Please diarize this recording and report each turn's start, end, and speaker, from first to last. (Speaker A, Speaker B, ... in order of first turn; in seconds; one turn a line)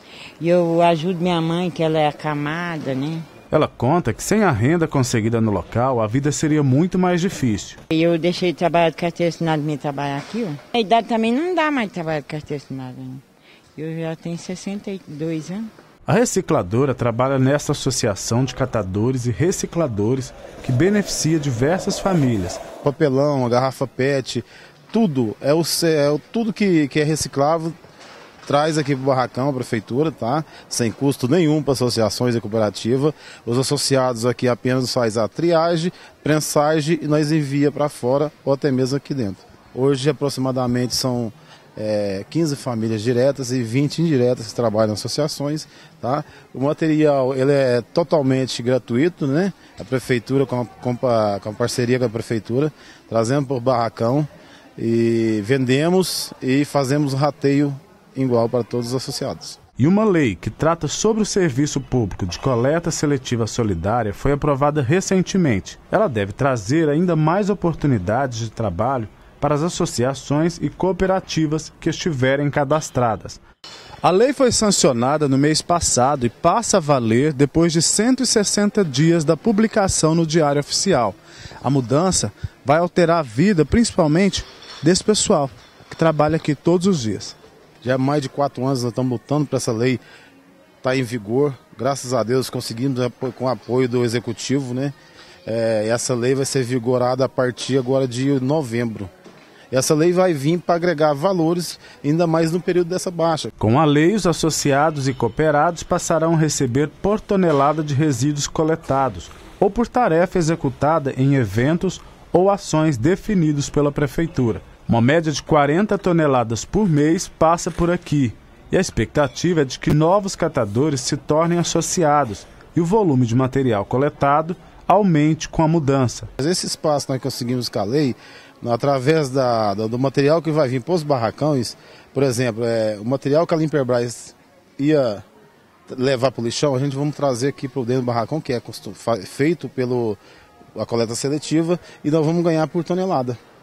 Speaker A: 0.4-3.3
Speaker B: 3.5-7.8
Speaker A: 7.9-13.2
Speaker A: 13.8-15.7
Speaker B: 16.1-22.6
Speaker C: 22.8-27.8
Speaker C: 28.5-59.6
Speaker B: 59.8-73.4
Speaker B: 74.0-87.4
Speaker C: 87.8-90.0
Speaker C: 90.8-99.1
Speaker C: 99.7-103.5
Speaker B: 103.6-126.3
Speaker C: 126.4-135.2
Speaker C: 135.9-140.2
Speaker C: 140.8-143.4